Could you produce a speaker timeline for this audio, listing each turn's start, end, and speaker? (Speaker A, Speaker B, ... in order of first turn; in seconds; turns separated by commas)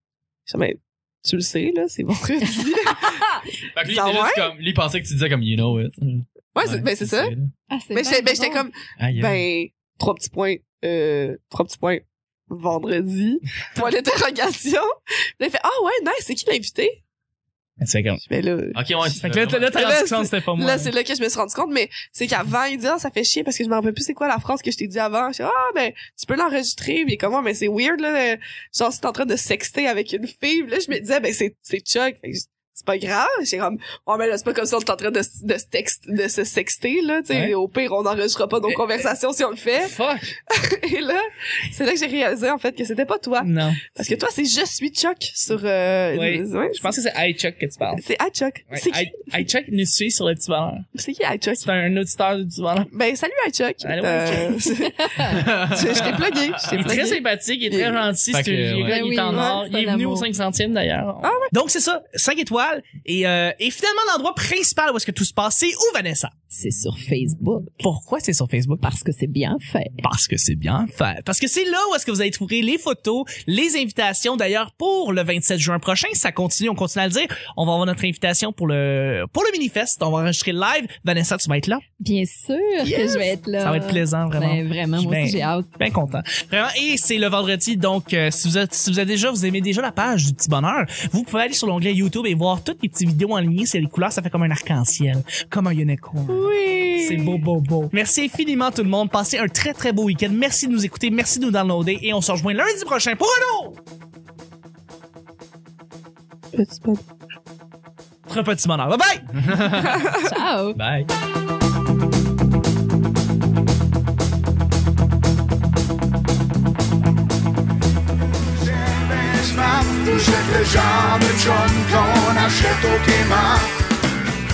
Speaker A: 0.5-3.3, Speaker B: 3.0-3.4, Speaker C: 3.7-7.5, Speaker A: 3.9-4.5, Speaker A: 6.5-7.3, Speaker B: 7.7-8.7, Speaker A: 7.9-17.0, Speaker C: 9.0-9.4, Speaker D: 17.8-18.2, Speaker A: 18.2-18.8, Speaker C: 18.7-19.9, Speaker D: 19.1-20.9, Speaker A: 19.6-40.0, Speaker D: 39.8-40.3, Speaker A: 40.5-46.9, Speaker D: 43.4-43.8, Speaker D: 46.1-48.0, Speaker A: 48.0-49.4, Speaker D: 48.7-50.9, Speaker A: 50.9-51.7, Speaker D: 51.6-52.9, Speaker A: 52.9-58.0, Speaker D: 53.8-54.8, Speaker B: 55.0-55.4, Speaker C: 55.2-56.9, Speaker D: 56.7-66.3, Speaker C: 58.3-59.0, Speaker B: 58.9-60.3, Speaker A: 59.3-59.6, Speaker A: 61.2-61.5, Speaker B: 66.5-67.8, Speaker D: 67.8-68.8, Speaker B: 68.8-70.0, Speaker D: 70.0-81.8, Speaker B: 82.0-85.7, Speaker D: 82.8-103.8, Speaker A: 96.3-97.4, Speaker A: 106.5-107.0, Speaker D: 108.3-109.3, Speaker C: 109.4-110.1, Speaker B: 110.2-110.8, Speaker C: 110.7-111.1, Speaker E: 118.7-123.7